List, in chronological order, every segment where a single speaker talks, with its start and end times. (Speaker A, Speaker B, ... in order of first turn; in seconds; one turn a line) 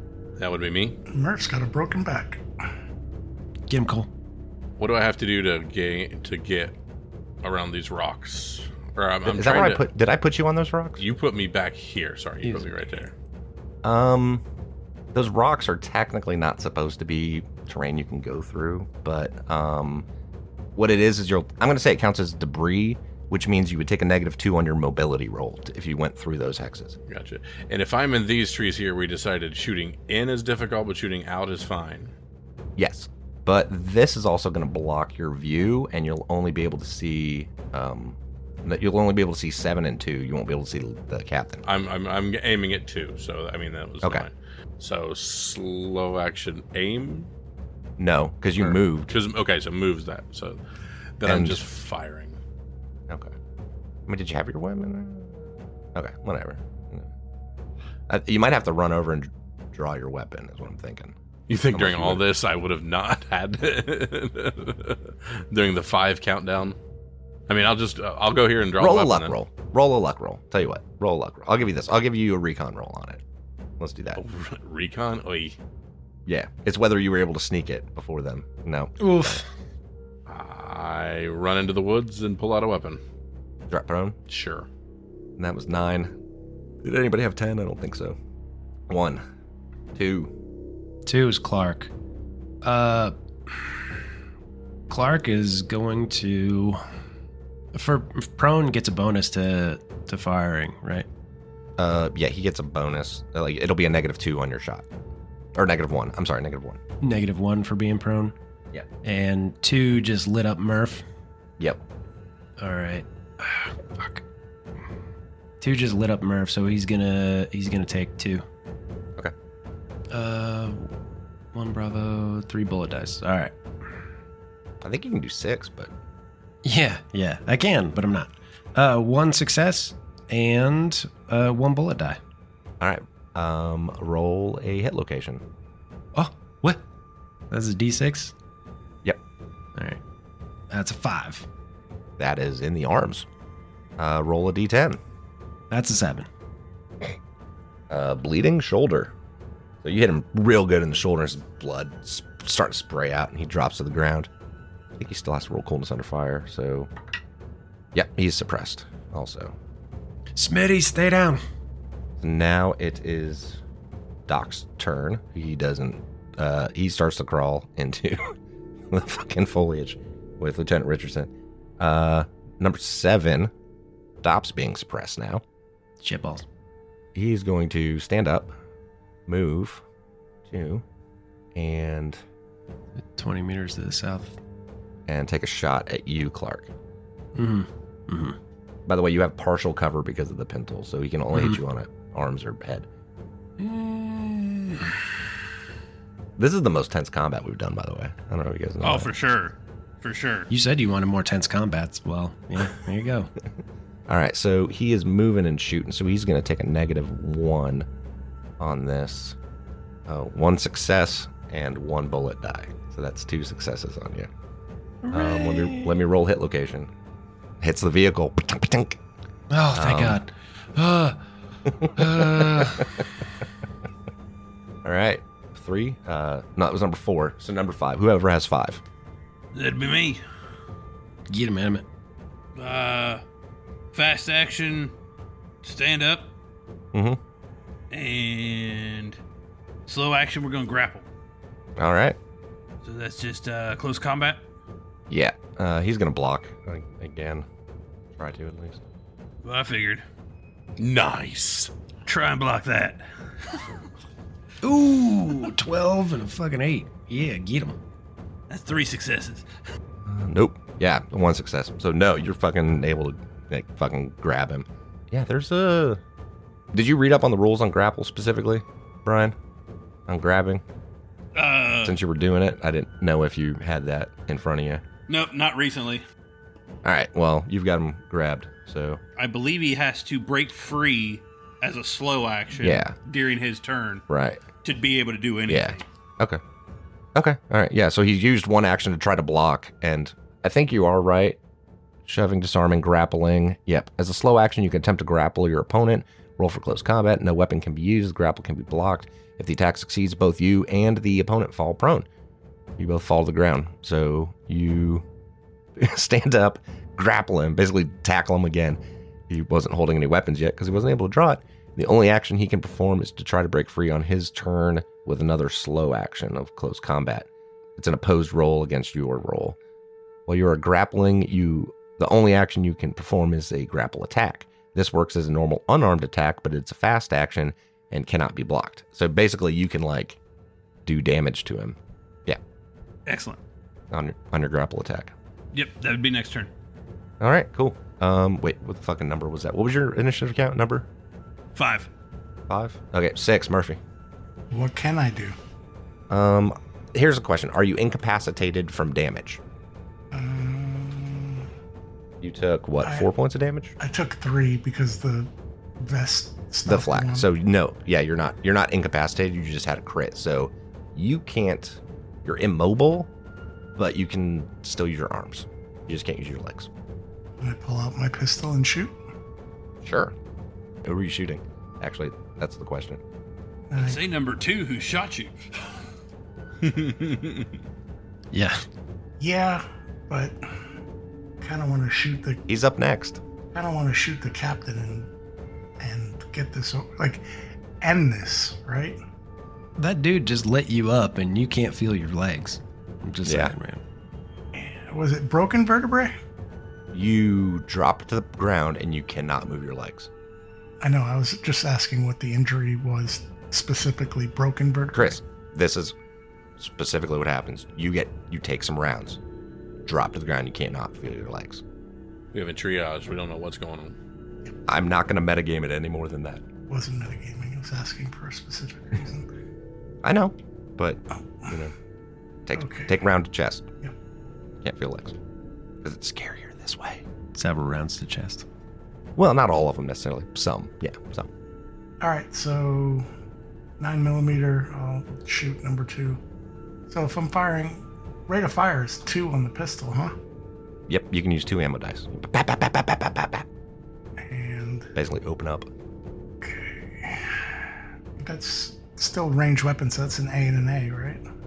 Speaker A: 0.4-1.0
Speaker B: 1.1-2.4
Speaker C: 3.7-4.1
Speaker A: 4.8-6.8
Speaker A: 7.4-9.8
Speaker D: 9.2-11.0
Speaker A: 11.0-13.1
Speaker C: 12.4-12.7
Speaker D: 13.8-14.4
Speaker D: 15.1-20.1
Speaker D: 20.8-27.0
Speaker A: 27.1-32.1
Speaker D: 32.8-41.6
Speaker A: 41.6-47.3
Speaker D: 44.0-44.3
Speaker D: 48.0-49.1
Speaker A: 48.6-50.6
Speaker A: 51.2-52.4
Speaker D: 51.2-51.6
Speaker D: 54.1-57.1
Speaker D: 58.1-61.2
Speaker A: 61.5-66.8
Speaker D: 61.7-62.2
Speaker A: 67.5-69.3
Speaker D: 68.8-73.2
Speaker D: 73.8-74.2
Speaker A: 74.2-75.6
Speaker D: 76.3-79.4
Speaker C: 79.0-79.5
Speaker A: 80.3-83.0
Speaker D: 83.7-84.2
Speaker A: 84.3-84.7
Speaker D: 85.4-86.1
Speaker D: 86.8-88.2
Speaker D: 88.9-89.2
Speaker D: 90.0-90.3
Speaker C: 91.1-91.9
Speaker C: 92.6-93.6
Speaker C: 94.9-96.8
Speaker C: 97.7-101.1
Speaker D: 101.8-104.9
Speaker D: 105.6-106.8
Speaker C: 107.0-108.3
Speaker C: 109.0-111.0
Speaker C: 112.6-114.2
Speaker C: 115.6-118.5
Speaker C: 120.1-120.9
Speaker C: 121.5-123.5
Speaker D: 124.8-125.9
Speaker C: 126.6-132.2
Speaker D: 132.8-135.4
Speaker C: 136.2-136.8
Speaker C: 137.5-138.3
Speaker C: 139.8-140.0
Speaker C: 140.7-141.5
Speaker D: 142.2-143.3
Speaker D: 144.0-145.0
Speaker C: 145.7-146.3
Speaker D: 147.9-149.1
Speaker D: 149.8-154.3
Speaker D: 155.0-156.9
Speaker D: 157.9-159.6
Speaker C: 160.3-161.4
Speaker D: 162.2-163.6
Speaker D: 164.3-168.4
Speaker D: 168.9-173.5
Speaker D: 174.2-175.4
Speaker C: 176.0-176.5
Speaker D: 177.2-178.6
Speaker D: 179.3-179.8
Speaker D: 180.5-180.8
Speaker D: 181.6-182.2
Speaker C: 183.0-184.4
Speaker D: 185.1-186.7
Speaker C: 187.3-188.4
Speaker D: 188.9-192.9
Speaker C: 193.6-195.0
Speaker D: 196.4-199.1
Speaker E: 198.8-200.5
Speaker C: 200.5-203.3
Speaker D: 204.1-207.9
Speaker D: 208.6-209.4
Speaker D: 210.1-214.3
Speaker C: 215.0-216.0
Speaker D: 215.1-216.9
Speaker D: 217.6-219.0
Speaker C: 219.5-221.2
Speaker D: 219.7-220.2
Speaker D: 221.8-222.9
Speaker C: 221.8-223.1
Speaker D: 224.8-228.8
Speaker E: 229.5-230.2
Speaker C: 231.3-231.8
Speaker E: 232.6-233.2
Speaker E: 233.9-234.9
Speaker E: 235.6-236.3
Speaker D: 236.9-237.2
Speaker E: 237.9-239.2
Speaker E: 239.9-241.1
Speaker D: 241.8-242.2
Speaker E: 242.8-244.4
Speaker D: 245.1-247.5
Speaker D: 248.2-248.8
Speaker E: 249.4-250.0
Speaker A: 250.8-251.7
Speaker E: 252.1-253.7
Speaker C: 254.6-257.8
Speaker E: 258.5-259.5
Speaker D: 260.1-266.0
Speaker D: 266.7-269.4
Speaker D: 270.1-270.6
Speaker E: 271.4-272.0
Speaker D: 271.8-274.8
Speaker E: 275.1-276.0
Speaker D: 276.8-279.0
Speaker E: 279.2-284.0
Speaker D: 282.6-283.0
Speaker D: 284.1-284.4
Speaker E: 284.6-285.8
Speaker D: 285.5-286.4
Speaker D: 287.1-291.4
Speaker D: 292.1-302.1
Speaker D: 302.8-305.1
Speaker D: 305.8-319.6
Speaker D: 320.3-330.2
Speaker D: 330.9-332.4
Speaker E: 333.1-333.4
Speaker D: 333.9-335.1
Speaker E: 335.5-336.5
Speaker D: 337.2-340.9
Speaker E: 341.6-341.9
Speaker D: 342.5-343.8
Speaker B: 344.5-345.4
Speaker D: 346.1-349.4
Speaker B: 350.1-351.5
Speaker D: 352.2-353.7
Speaker B: 352.8-353.1
Speaker B: 353.8-357.3
Speaker D: 356.7-363.1
Speaker D: 363.8-366.7
Speaker B: 367.4-368.9
Speaker D: 369.8-370.1
Speaker D: 370.8-373.0
Speaker B: 373.7-374.0
Speaker E: 373.8-375.8
Speaker A: 376.6-377.5
Speaker C: 378.3-378.6
Speaker B: 379.2-380.4
Speaker B: 381.4-382.4
Speaker D: 382.5-383.2
Speaker B: 383.5-385.1
Speaker B: 385.8-387.2
Speaker B: 387.8-389.0
Speaker C: 389.8-393.8
Speaker D: 393.2-393.6
Speaker B: 394.6-396.1
Speaker D: 396.9-400.1
Speaker B: 400.8-405.2
Speaker D: 404.9-405.9
Speaker D: 406.6-409.2
Speaker D: 409.9-411.6
Speaker A: 412.3-414.0
Speaker D: 414.7-416.4
Speaker B: 416.7-419.3
Speaker D: 420.0-421.7
Speaker D: 422.5-423.7
Speaker B: 422.5-422.9
Speaker D: 424.6-425.2
Speaker D: 425.8-427.0
Speaker C: 427.4-428.5
Speaker D: 429.2-431.3
Speaker B: 432.0-433.1
Speaker B: 433.8-436.2
Speaker B: 436.9-440.1
Speaker D: 440.9-443.5
Speaker B: 444.2-444.9
Speaker D: 444.9-445.7
Speaker B: 446.4-451.2